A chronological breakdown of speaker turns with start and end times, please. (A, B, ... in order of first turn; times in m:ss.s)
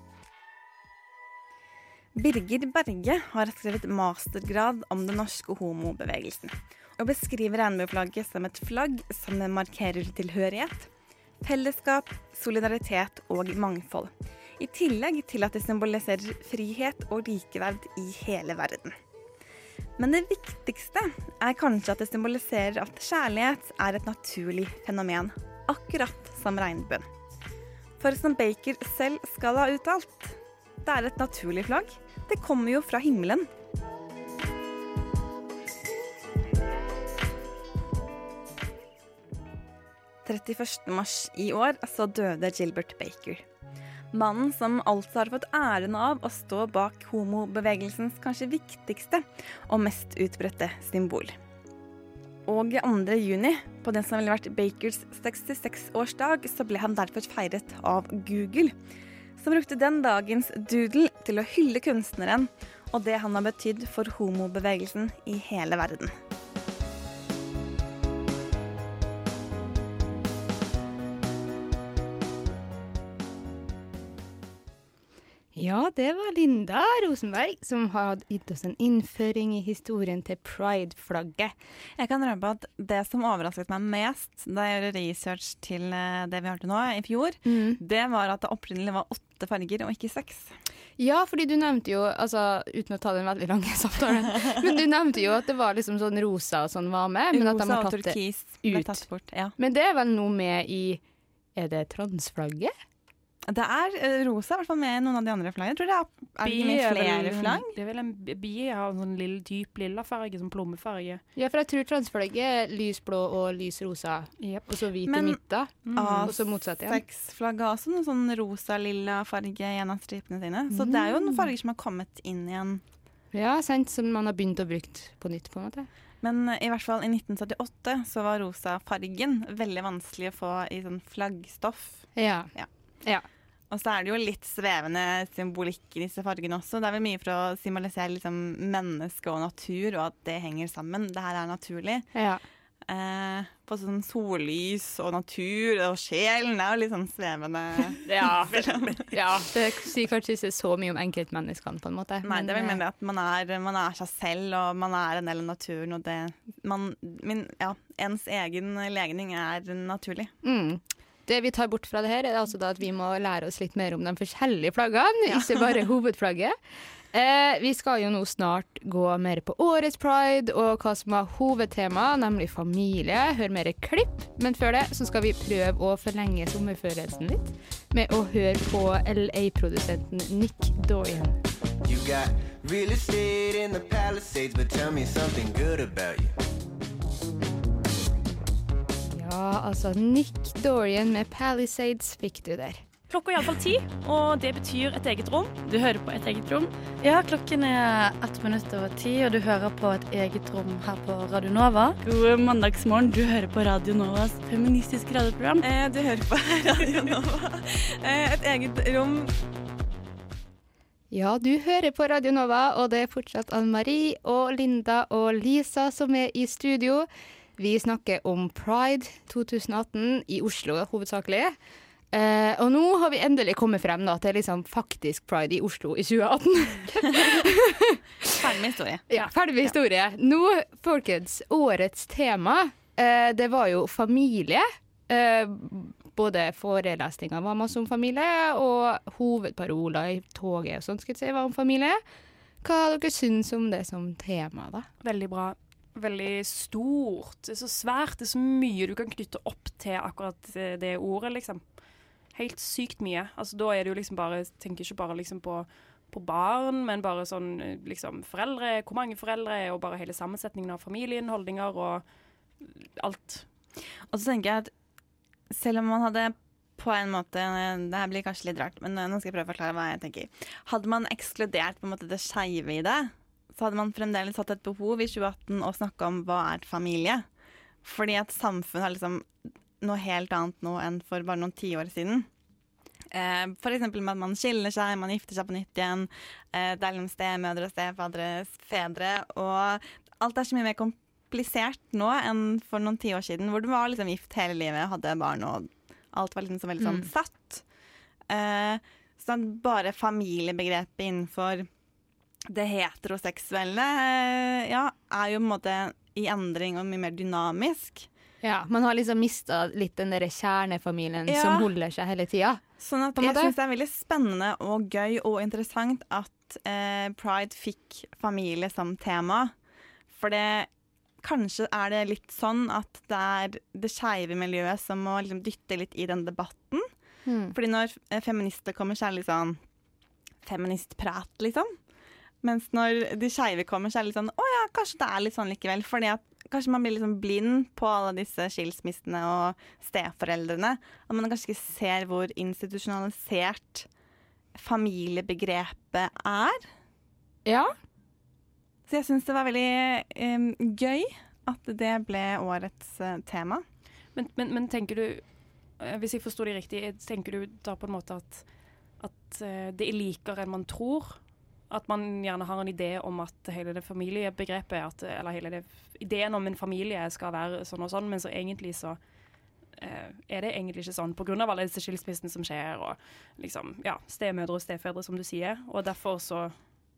0:02.2-0:10.9 A
0:11.4-0:18.9 A
0:20.0-0:27.0 A
0:28.0-0:33.5 A
0:40.2-0:43.4 A
0:44.1-0:51.4 A
0:52.5-0:58.7 A
0:59.4-1:06.1 A
1:15.5-1:21.5 B
1:22.0-1:30.5 A
1:27.4-1:27.8 B
1:31.0-1:39.0 B
1:37.3-1:39.5 A
1:39.6-1:41.0 B
1:41.6-1:42.7 B
1:43.5-1:47.7 A
1:46.4-1:51.2 C
1:51.4-1:57.0 B
1:54.4-1:54.7 C
1:55.1-1:55.4 A
1:55.8-1:56.3 C
1:55.9-2:02.8 A
2:00.7-2:01.5 B
2:03.3-2:05.9 B
2:06.2-2:12.7 A
2:12.2-2:12.5 B
2:13.7-2:22.1 A
2:22.1-2:22.4 B
2:22.9-2:29.1 A
2:28.1-2:32.8 B
2:28.1-2:28.9 C
2:32.2-2:40.3 A
2:40.4-2:46.5 B
2:47.1-3:01.4 B
3:01.8-3:06.3 D
3:09.1-3:12.8 B
3:13.1-3:15.6 C
3:15.6-3:25.6 E
3:25.6-3:29.3 A
3:31.1-3:41.6 B
3:42.1-3:48.0 B
3:48.3-3:49.1 A
3:49.1-4:02.0 B
4:02.6-4:04.9 B
4:05.0-4:11.7 C
4:12.3-4:22.0 C
4:22.6-4:23.5 C
4:24.1-4:24.7 A
4:25.5-4:37.2 A
4:37.8-4:39.2 A
4:39.8-4:42.3 A
4:43.1-4:57.6 A
4:56.8-4:57.1 B
4:58.3-5:01.7 A
5:02.5-5:08.1 A
5:08.4-5:12.6 B
5:11.3-5:11.7 A
5:12.8-5:19.5 A
5:13.2-5:13.5 B
5:20.1-5:20.7 A
5:21.2-5:26.9 A
5:27.2-5:27.5 B
5:27.5-5:29.6 A
5:30.4-5:31.7 A
5:32.4-5:43.9 A
5:44.5-5:46.6 A
5:47.4-5:47.7 B
5:48.9-5:53.6 A
5:54.1-6:09.0 C
6:09.7-6:16.5 C